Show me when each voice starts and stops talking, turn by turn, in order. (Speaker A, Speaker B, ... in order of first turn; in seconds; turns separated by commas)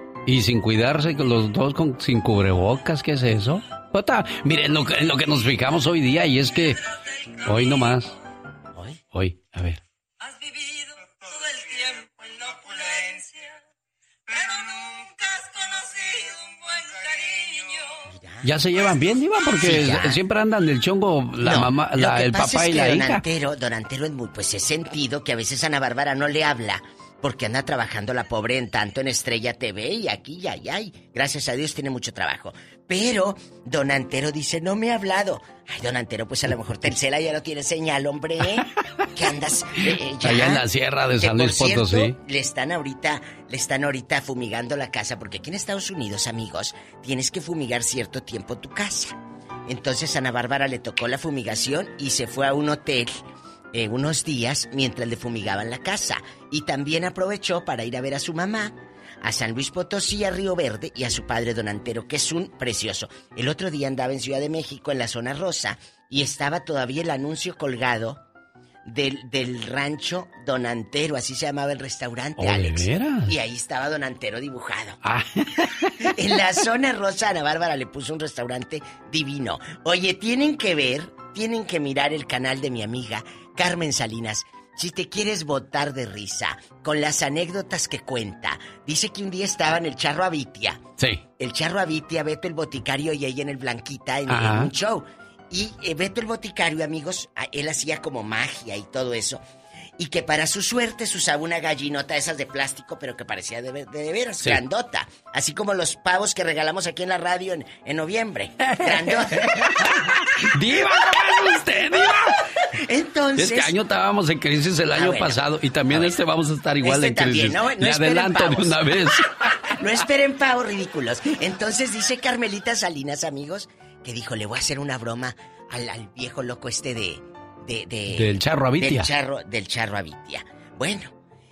Speaker A: 0.3-6.8, Speaker A: 7.4-8.1, Speaker A: 9.1-9.8, Speaker B: 18.1-18.5, Speaker A: 18.4-23.2, Speaker B: 19.6-20.2, Speaker B: 21.4-40.6, Speaker A: 40.2-42.2, Speaker B: 41.2-49.1, Speaker B: 49.7-53.2, Speaker B: 53.7-68.2, Speaker B: 68.9-75.0, Speaker A: 72.4-73.3, Speaker A: 75.0-75.9, Speaker B: 76.1-90.8, Speaker B: 91.4-99.4, Speaker A: 94.3-94.7, Speaker B: 100.0-109.8, Speaker A: 108.7-109.2, Speaker A: 109.8-112.4, Speaker B: 112.8-113.7, Speaker A: 113.4-119.3, Speaker B: 114.9-115.4, Speaker B: 116.8-118.8, Speaker B: 119.8-131.1, Speaker A: 128.1-129.1